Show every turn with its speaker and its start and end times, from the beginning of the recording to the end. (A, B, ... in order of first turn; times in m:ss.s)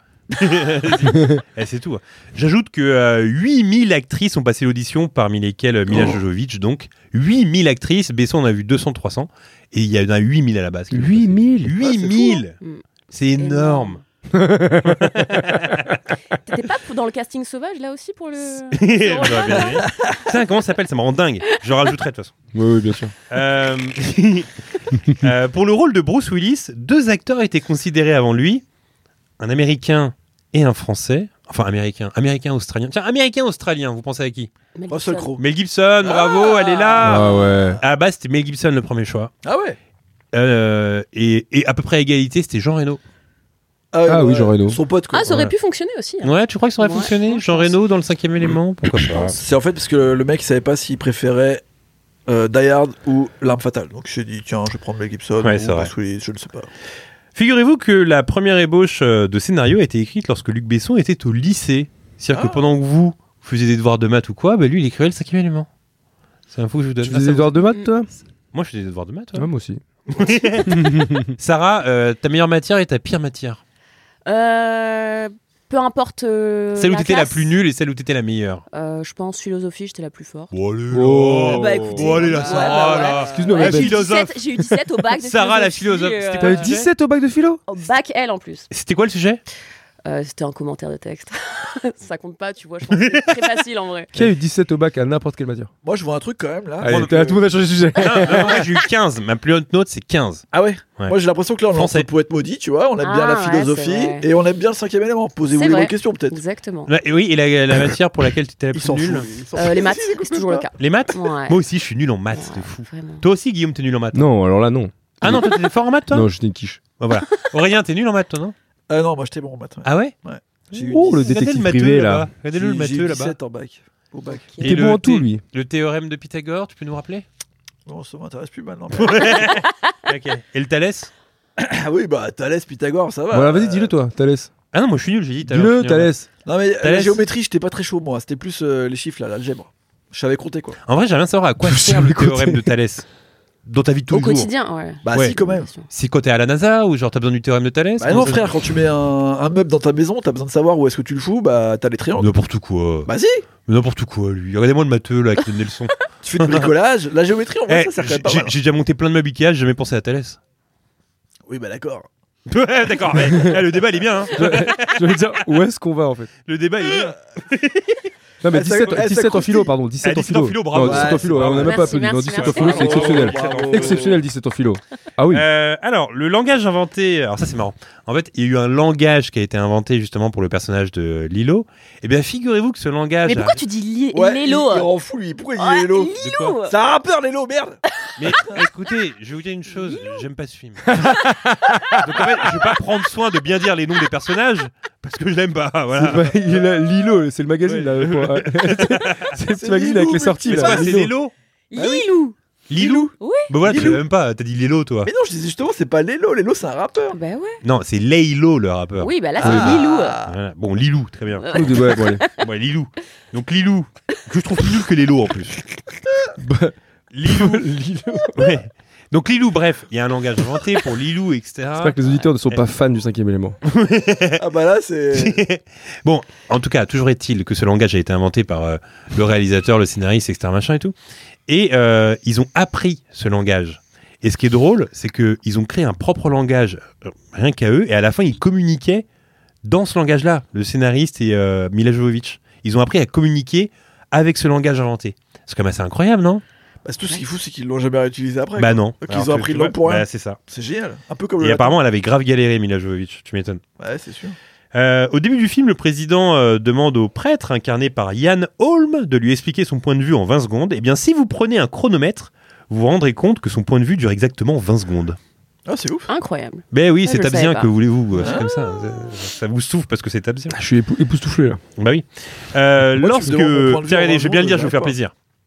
0:00.3-0:12.6 A
0:01.1-0:01.4 B
0:10.9-0:11.8 B
0:12.6-0:12.8 C
0:13.1-0:14.0 A
0:13.4-0:14.0 C
0:14.3-0:15.5 B
0:15.0-0:15.6 A
0:16.4-0:20.2 C
0:18.7-0:22.4 A
0:22.5-0:23.1 B
0:23.3-0:24.5 A
0:25.1-0:28.6 A
0:29.4-0:34.5 A
0:34.8-0:35.3 C
0:34.9-0:35.4 D
0:35.4-0:39.3 A
0:36.1-0:37.5 C
0:37.0-0:37.8 B
0:39.4-0:39.8 D
0:40.3-0:43.0 A
0:43.9-0:45.3 D
0:44.1-0:44.8 B
0:45.1-0:47.8 C
0:45.3-0:45.5 A
0:46.2-0:49.4 A
0:49.3-0:51.6 D
0:52.3-0:56.7 D
0:55.4-0:55.9 A
0:57.4-1:05.7 A
1:02.3-1:02.7 D
1:06.5-1:07.6 A
1:07.0-1:08.1 B
1:08.5-1:09.5 A
1:09.4-1:09.8 B
1:10.1-1:13.6 A
1:10.7-1:11.4 B
1:14.3-1:17.6 C
1:16.8-1:18.6 A
1:18.7-1:20.5 C
1:20.5-1:24.4 A
1:20.9-1:22.3 B
1:21.4-1:26.7 C
1:22.2-1:23.3 D
1:23.2-1:24.0 B
1:25.1-1:26.9 A
1:26.4-1:27.6 B
1:27.7-1:28.7 C
1:28.7-1:29.4 A
1:30.0-1:34.2 C
1:33.0-1:33.3 A
1:34.1-1:35.7 B
1:35.8-1:37.4 D
1:36.8-1:38.7 B
1:36.8-1:37.4 A
1:38.0-1:40.5 A
1:40.5-1:46.4 D
1:41.7-1:42.1 A
1:43.0-1:44.3 C
1:45.5-1:46.9 C
1:46.9-1:49.3 A
1:48.7-1:50.7 D
1:49.6-1:51.6 C
1:50.8-1:54.2 A
1:52.3-1:53.2 C
1:54.1-1:55.6 B
1:55.2-1:56.3 A
1:56.1-1:56.8 B
1:57.0-1:58.6 A
1:58.9-2:01.4 D
1:59.8-2:00.1 A
2:00.8-2:02.3 B
2:01.2-2:03.4 A
2:02.5-2:04.5 D
2:04.3-2:04.8 C
2:04.6-2:05.4 B
2:04.6-2:07.2 A
2:07.9-2:09.6 D
2:08.9-2:11.1 A
2:11.6-2:13.9 D
2:13.3-2:14.5 B
2:14.7-2:16.1 A
2:15.4-2:16.3 B
2:16.4-2:20.8 D
2:16.8-2:17.2 A
2:20.9-2:23.1 A
2:21.6-2:22.7 B
2:23.7-2:24.5 A
2:24.1-2:25.9 C
2:25.0-2:25.7 D
2:25.9-2:28.5 A
2:28.0-2:32.3 D
2:32.2-2:33.1 A
2:33.1-2:33.4 D
2:33.7-2:36.7 A
2:36.2-2:38.6 D
2:37.7-2:40.4 A
2:41.5-2:42.1 D
2:42.5-2:45.2 A
2:44.3-2:46.3 B
2:46.5-2:48.0 A
2:48.4-2:55.4 B
2:48.5-2:49.8 D
2:50.0-2:54.1 A
2:50.8-2:51.7 D
2:51.5-2:53.1 C
2:52.4-2:54.2 D
2:55.3-3:03.6 A
3:03.3-3:04.9 C
3:04.1-3:07.8 D
3:05.6-3:06.7 C
3:06.2-3:06.6 A
3:08.2-3:10.9 A
3:10.9-3:12.0 B
3:12.0-3:16.3 A
3:16.0-3:21.1 B
3:17.7-3:18.0 D
3:17.8-3:19.4 A
3:19.6-3:21.0 D
3:20.5-3:21.3 A
3:21.7-3:23.5 C
3:21.8-3:22.0 D
3:22.7-3:25.1 A
3:23.6-3:24.0 D
3:25.0-3:27.2 D
3:27.1-3:27.6 C
3:27.6-3:35.6 A
3:29.0-3:30.2 C
3:29.4-3:30.4 D
3:29.4-3:29.7 B
3:31.4-3:32.3 C
3:31.5-3:32.3 B
3:36.4-3:36.7 B
3:37.1-3:37.7 A
3:37.2-3:38.5 B
3:38.4-3:42.6 A
3:41.8-3:43.6 B
3:43.6-3:44.4 A
3:44.4-3:45.4 D
3:45.1-3:50.9 A
3:51.5-3:59.0 A
3:59.6-4:06.4 A
4:06.8-4:11.8 D
4:08.6-4:10.4 A
4:11.4-4:13.6 A
4:13.8-4:14.4 D
4:14.7-4:25.2 A
4:25.7-4:26.1 D
4:26.1-4:27.7 C
4:26.7-4:30.6 A
4:28.2-4:28.5 D
4:30.5-4:31.6 B
4:31.8-4:35.1 A
4:33.0-4:35.0 D